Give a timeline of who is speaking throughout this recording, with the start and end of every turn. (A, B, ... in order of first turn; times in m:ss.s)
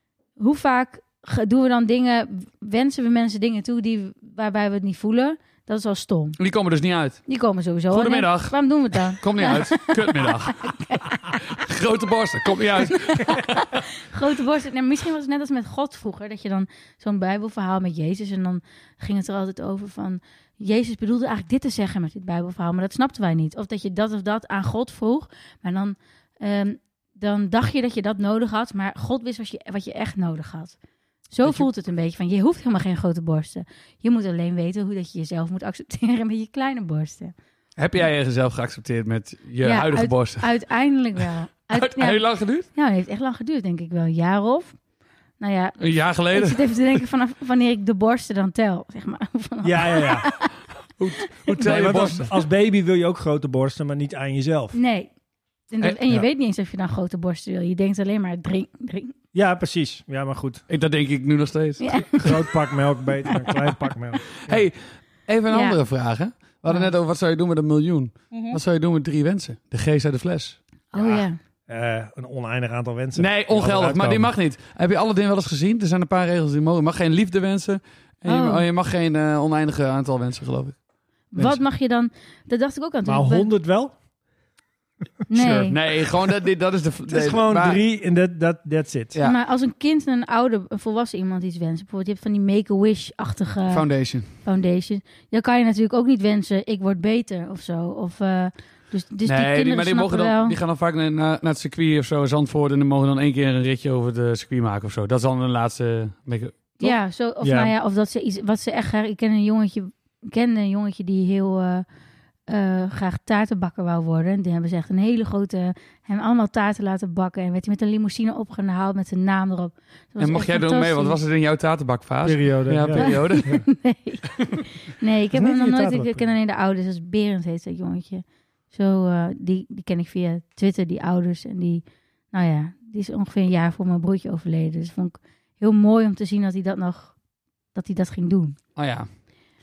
0:00.4-0:06.4 A
0:06.4-0:07.2 B
0:07.3-0:11.3 A
0:07.9-0:10.7 B
0:11.4-0:13.8 B
0:13.1-0:30.8 A
0:31.3-0:37.3 A
0:37.8-0:40.5 B
0:39.6-0:44.8 A
0:41.7-0:42.7 B
0:45.4-0:50.5 A
0:45.8-0:47.0 B
0:49.6-0:50.3 C
0:51.0-0:52.3 B
0:51.5-0:54.8 C
0:54.7-0:55.1 A
0:55.7-0:59.1 A
0:59.3-1:00.6 C
1:00.7-1:02.4 B
1:01.8-1:02.1 A
1:02.2-1:04.7 C
1:04.4-1:10.6 B
1:05.5-1:05.8 A
1:10.9-1:11.4 A
1:10.9-1:14.3 C
1:13.2-1:20.8 B
1:18.3-1:18.6 A
1:21.3-1:23.5 A
1:23.0-1:23.9 C
1:25.3-1:25.8 A
1:25.3-1:27.8 B
1:27.1-1:29.2 C
1:29.2-1:40.6 A
1:33.7-1:34.4 B
1:39.2-1:46.8 B
1:46.8-1:51.8 A
1:47.4-1:47.7 C
1:52.5-2:01.2 A
2:00.2-2:03.5 B
2:02.2-2:03.6 C
2:02.9-2:17.1 A
2:05.3-2:06.3 C
2:17.7-2:18.6 A
2:18.8-2:19.1 B